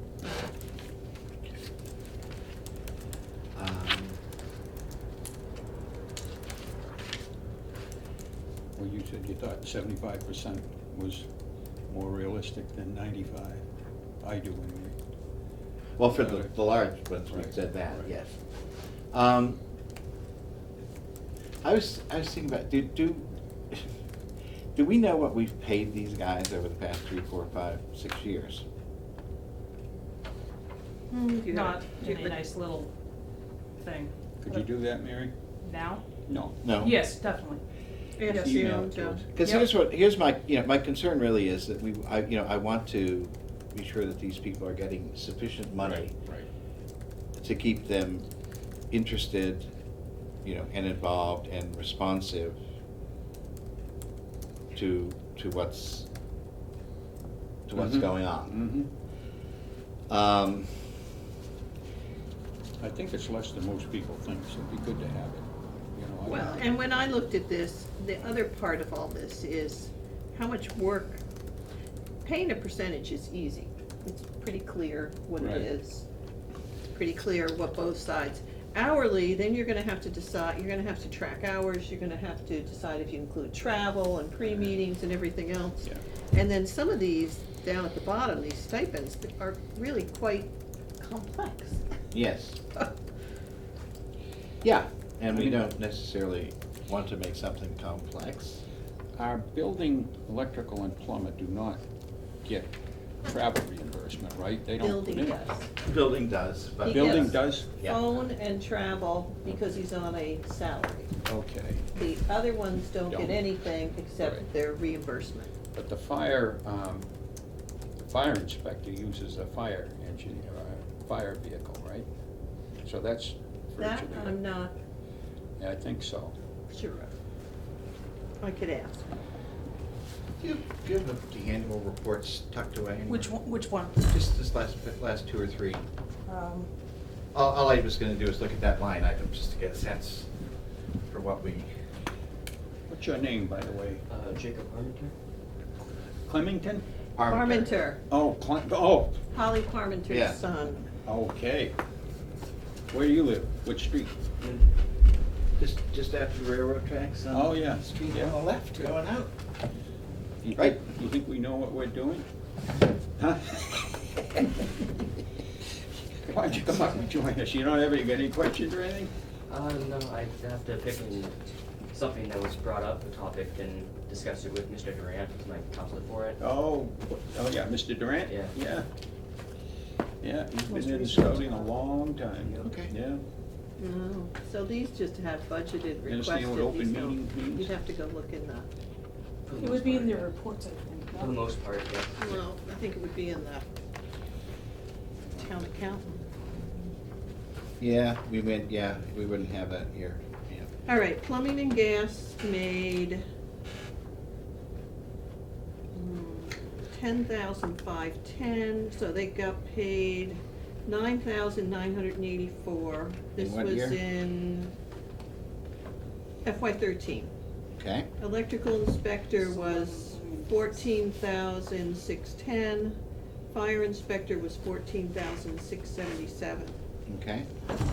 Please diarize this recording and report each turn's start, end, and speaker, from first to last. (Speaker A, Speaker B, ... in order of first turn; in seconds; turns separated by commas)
Speaker A: 3.5-4.2, Speaker B: 8.8-11.2, Speaker B: 11.9-13.6, Speaker B: 14.2-14.9, Speaker A: 16.0-18.3, Speaker B: 16.1-16.5, Speaker B: 17.3-18.1, Speaker A: 19.1-19.6, Speaker A: 21.6-23.9, Speaker A: 24.8-28.6, Speaker C: 31.1-32.4, Speaker D: 31.5-32.9, Speaker D: 33.8-34.1, Speaker B: 34.4-35.3, Speaker D: 35.6-36.1, Speaker B: 36.3-36.6, Speaker A: 36.6-37.0, Speaker D: 36.7-37.6, Speaker C: 38.2-39.2, Speaker D: 38.3-38.7, Speaker B: 38.3-39.3, Speaker A: 39.4-46.1, Speaker D: 39.4-39.7, Speaker B: 45.8-46.5, Speaker A: 47.4-48.3, Speaker A: 48.9-49.7, Speaker A: 50.4-52.6, Speaker A: 54.7-56.1, Speaker A: 57.7-58.6, Speaker B: 57.8-58.9, Speaker A: 60.1-60.8, Speaker B: 62.8-66.7, Speaker C: 66.3-71.2, Speaker C: 72.2-76.1, Speaker B: 75.4-75.7, Speaker C: 76.9-91.8, Speaker A: 92.1-92.6, Speaker A: 94.6-98.6, Speaker B: 95.3-95.6, Speaker B: 99.2-101.8, Speaker B: 102.4-102.7, Speaker B: 103.2-105.4, Speaker C: 104.8-105.7, Speaker A: 105.8-108.0, Speaker C: 106.8-111.1, Speaker B: 106.9-107.7, Speaker B: 111.2-111.8, Speaker C: 112.0-115.5, Speaker B: 113.1-113.5, Speaker B: 114.2-114.5, Speaker B: 115.7-117.1, Speaker B: 118.0-122.1, Speaker B: 122.8-124.4, Speaker C: 123.8-124.8, Speaker B: 125.6-126.3, Speaker C: 126.7-127.1, Speaker C: 128.4-129.0, Speaker A: 130.4-133.3, Speaker D: 133.1-134.0, Speaker A: 134.0-135.8, Speaker D: 136.3-136.7, Speaker A: 137.3-140.3, Speaker A: 141.1-141.7, Speaker B: 142.9-144.0, Speaker E: 144.1-145.1, Speaker B: 146.2-146.8, Speaker A: 147.2-147.9, Speaker C: 147.3-148.0, Speaker B: 148.1-149.2, Speaker C: 149.3-150.9, Speaker A: 150.1-150.4, Speaker B: 151.1-151.8, Speaker B: 152.9-154.2, Speaker E: 154.4-154.7, Speaker A: 155.6-159.3, Speaker B: 157.3-158.4, Speaker B: 160.4-162.3, Speaker B: 163.2-163.8, Speaker B: 166.2-169.1, Speaker E: 169.5-171.4, Speaker E: 171.9-176.4, Speaker B: 176.4-178.9, Speaker E: 178.3-178.5, Speaker B: 180.2-183.2, Speaker D: 180.7-181.7, Speaker E: 182.4-182.7, Speaker A: 182.6-182.9, Speaker C: 183.8-188.7, Speaker B: 186.1-187.7, Speaker E: 189.5-190.3, Speaker D: 189.6-191.4, Speaker E: 191.2-192.4, Speaker C: 192.2-193.6, Speaker C: 195.4-196.7, Speaker A: 197.8-200.7, Speaker C: 200.9-203.2, Speaker C: 205.9-214.7, Speaker A: 213.4-214.0, Speaker C: 216.4-217.3, Speaker A: 217.8-218.1, Speaker C: 218.2-223.0, Speaker D: 219.4-220.8, Speaker C: 223.5-226.8, Speaker A: 227.1-227.5